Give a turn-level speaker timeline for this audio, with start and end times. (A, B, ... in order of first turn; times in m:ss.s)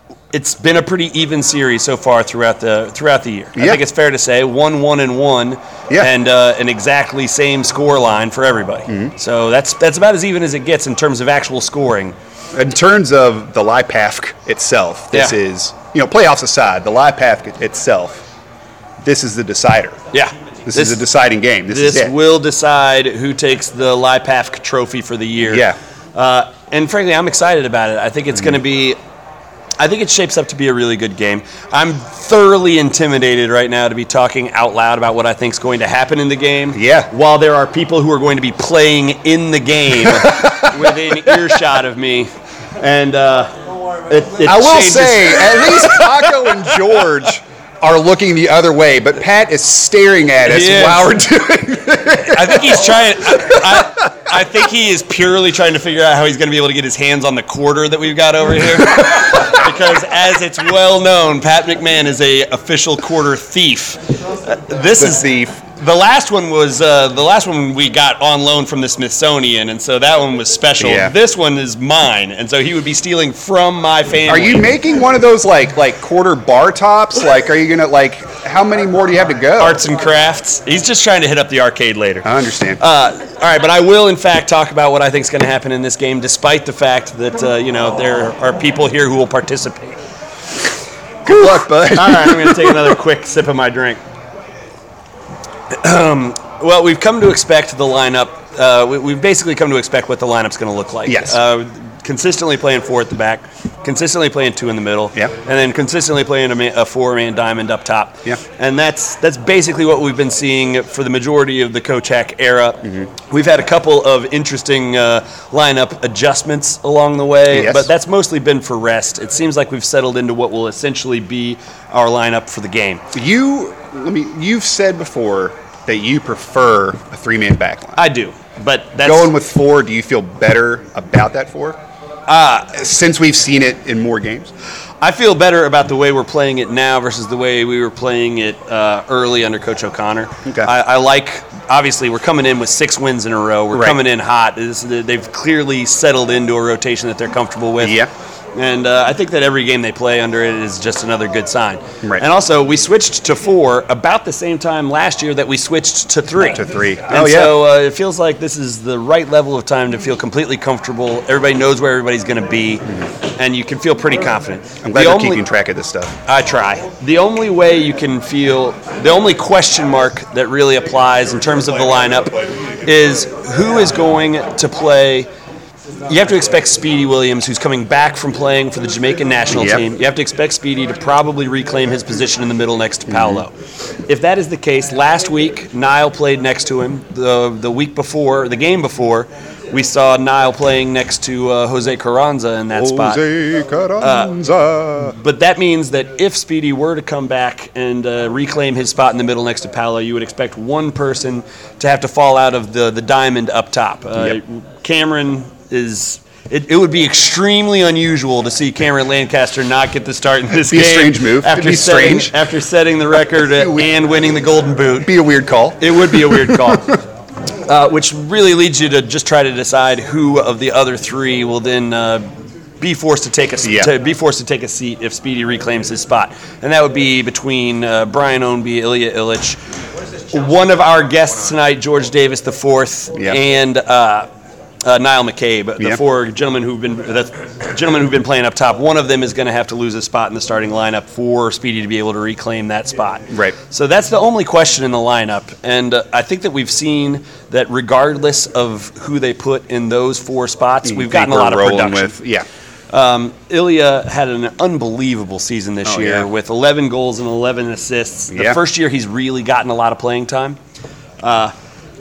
0:00.3-0:12.2 A
0:03.6-0:03.8 B
0:12.5-0:18.2 B
0:19.0-0:20.0 B
0:20.1-0:21.0 A
0:20.7-0:22.1 B
0:21.7-0:29.0 A
0:25.4-0:25.8 B
0:29.8-0:43.5 A
0:36.7-0:37.1 B
0:40.0-0:41.6 B
0:44.1-0:46.7 A
0:44.4-0:53.9 B
0:50.4-0:51.1 A
0:52.3-1:14.7 A
1:05.0-1:05.5 B
1:10.8-1:11.1 B
1:14.3-1:19.8 B
1:19.6-1:22.3 A
1:22.2-1:22.8 B
1:22.8-1:30.0 A
1:31.3-1:33.0 B
1:31.3-1:34.0 A
1:35.7-2:03.0 A
1:41.0-1:41.4 B
1:57.5-1:57.9 B
2:03.1-2:08.0 B
2:08.0-2:09.3 A
2:09.0-2:11.8 B
2:12.3-2:12.7 A
2:12.7-2:14.5 B
2:15.0-2:28.0 A
2:23.7-2:24.0 B
2:27.8-2:28.1 B
2:28.6-2:45.4 A
2:36.5-2:37.6 B
2:44.8-2:46.1 B
2:46.3-2:55.3 A
2:56.1-3:03.5 A
2:59.5-2:59.8 B
3:03.1-3:03.4 B
3:04.1-3:13.2 A
3:12.7-3:15.2 B
3:14.0-3:14.3 A
3:15.1-3:35.1 A
3:30.6-3:32.3 B
3:33.5-3:33.9 B
3:35.0-3:37.0 B
3:35.8-3:36.9 A
3:37.7-3:42.3 A
3:42.8-3:49.6 A
3:43.6-3:43.9 B
3:50.3-3:54.3 A
3:54.8-4:12.2 A
4:03.3-4:03.6 B
4:10.8-4:12.4 B
4:12.9-4:20.6 A
4:15.8-4:16.3 B
4:18.3-4:18.6 B
4:21.2-4:21.5 A